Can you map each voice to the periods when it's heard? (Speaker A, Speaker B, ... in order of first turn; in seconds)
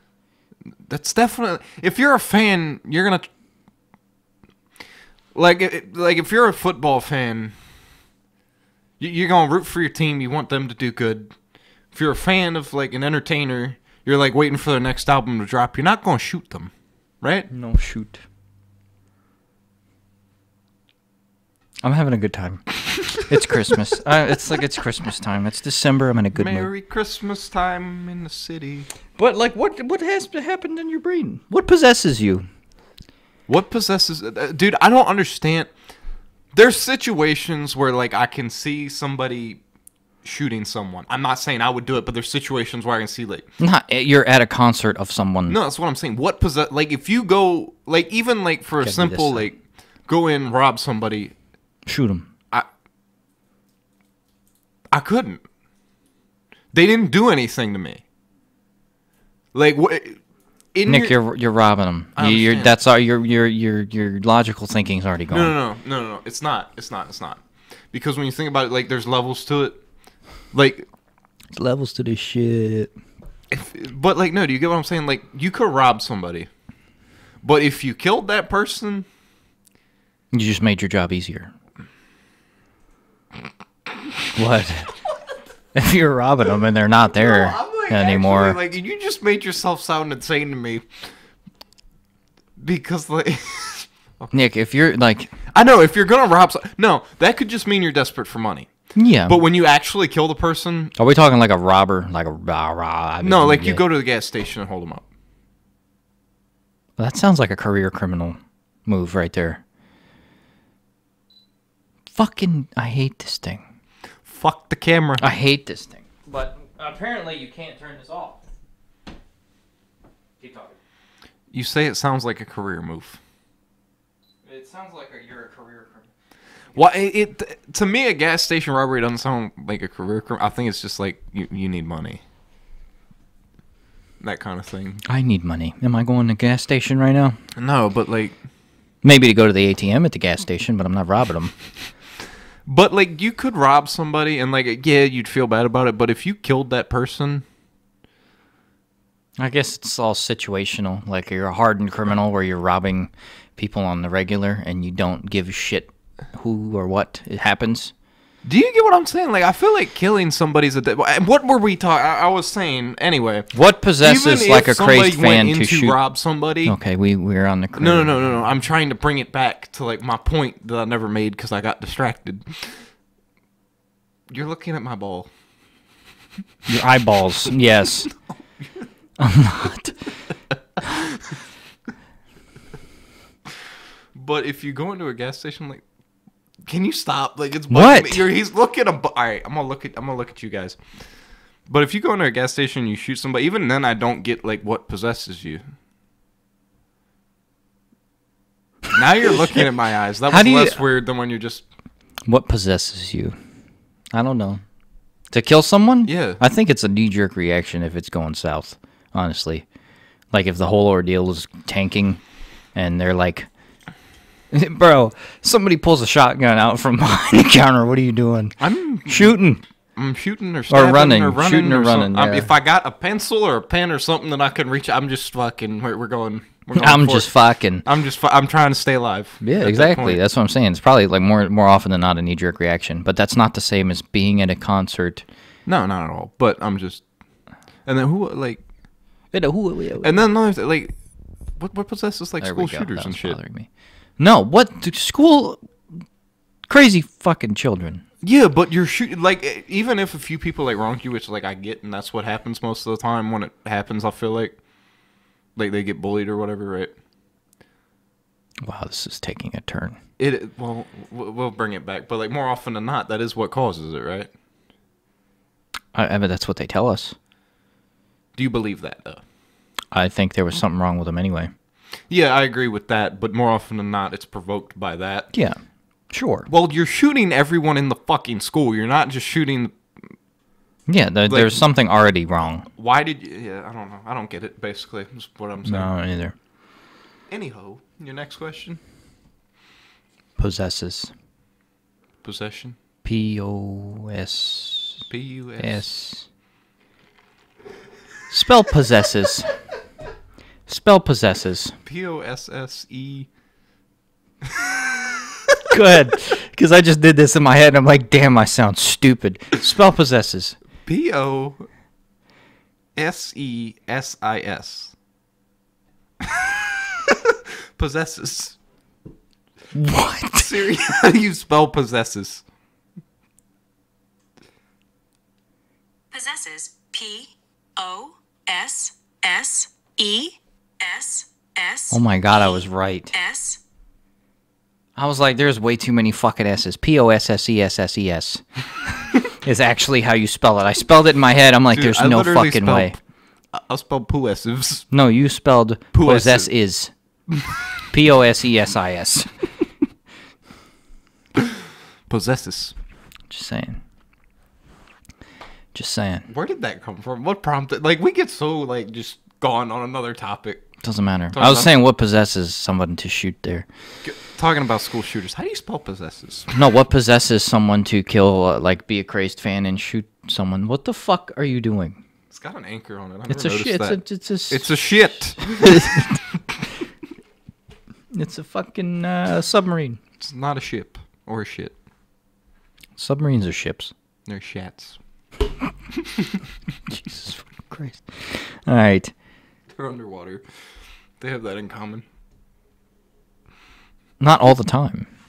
Speaker A: 0.7-3.3, 5.3-7.5, 9.0-11.3, 11.9-17.5, 26.3-28.9, 33.5-35.7, 36.5-39.6, 40.2-43.5, 45.5-51.3, 54.9-55.4, 56.7-58.0, 59.5-60.2, 60.7-61.2, 62.1-62.7, 65.3-67.4, 67.9-69.8, 70.5-70.9, 73.5-76.5, 77.4-79.0, 87.1-90.9, 92.6-94.3, 95.5-98.7, 99.2-100.9, 103.2-105.0, 114.2-115.2, 121.5-123.2, 126.7-132.2, 134.2-135.0, 137.6-138.4, 142.7-147.4, 158.4-166.8, 167.8-172.8, 174.3-175.3, 184.1-185.8, 186.6-190.8, 191.7-195.6, 198.9-201.6, 206.0-206.4, 218.6-219.4, 219.9-227.3, 227.8-230.2, 235.7-237.0, 237.8-238.6, 240.0-240.9, 241.6-243.4, 248.2-254.6, 255.6-256.9, 260.2-264.3, 268.3-269.2, 272.1-275.3, 276.5-279.7, 281.3-281.6, 282.8-285.9, 287.3-288.8, 292.2-292.8, 295.1-295.9, 301.8-303.3, 304.4-305.6, 310.8-311.6, 312.9-314.9, 316.2-318.6, 320.3-322.4, 341.7-343.0, 343.5-344.9, 345.9-346.5, 351.4-352.7, 356.3-360.6, 361.3-361.7, 364.0-366.5, 372.3-376.1, 380.2-381.7, 384.3-385.0, 386.0-386.3, 389.7-390.4, 391.2-392.0
Speaker B: 17.5-18.2, 21.8-26.7, 29.1-32.5, 43.6-45.6, 48.8-49.5, 51.9-52.3, 60.9-65.5, 71.5-72.9, 80.3-81.5, 84.3-84.9, 85.7-88.6, 94.3-95.3, 98.9-99.4, 101.0-103.8, 107.0-109.6, 112.1-113.6, 115.2-118.4, 120.4-120.8, 124.4-126.1, 135.1-137.4, 139.0-141.5, 149.4-157.9, 163.5-166.0, 166.6-168.2, 176.7-178.1, 179.2-180.0, 187.7-188.3, 200.3-200.8, 202.2-203.4, 204.1-204.6, 205.3-209.6, 210.3-212.2, 212.7-213.5, 214.5-219.6, 220.7-222.5, 226.7-227.8, 229.4-235.2, 239.3-240.2, 242.4-245.6, 246.7-248.0, 258.6-260.0, 265.9-267.1, 269.9-271.5, 275.3-275.6, 276.1-276.5, 280.9-282.7, 285.6-286.3, 290.4-291.1, 293.0-295.0, 295.6-296.2, 298.3-299.5, 300.7-301.7, 305.7-310.6, 319.7-320.5, 331.9-333.1, 334.9-338.4, 339.4-342.9, 344.9-346.9, 347.9-349.3, 353.3-353.8, 355.7-356.3, 360.8-363.6, 366.5-372.0, 373.3-374.8, 375.4-376.1, 378.1-380.0, 383.0-383.9, 386.9-389.1, 394.2-395.1
Speaker C: 326.1-332.0, 333.1-333.6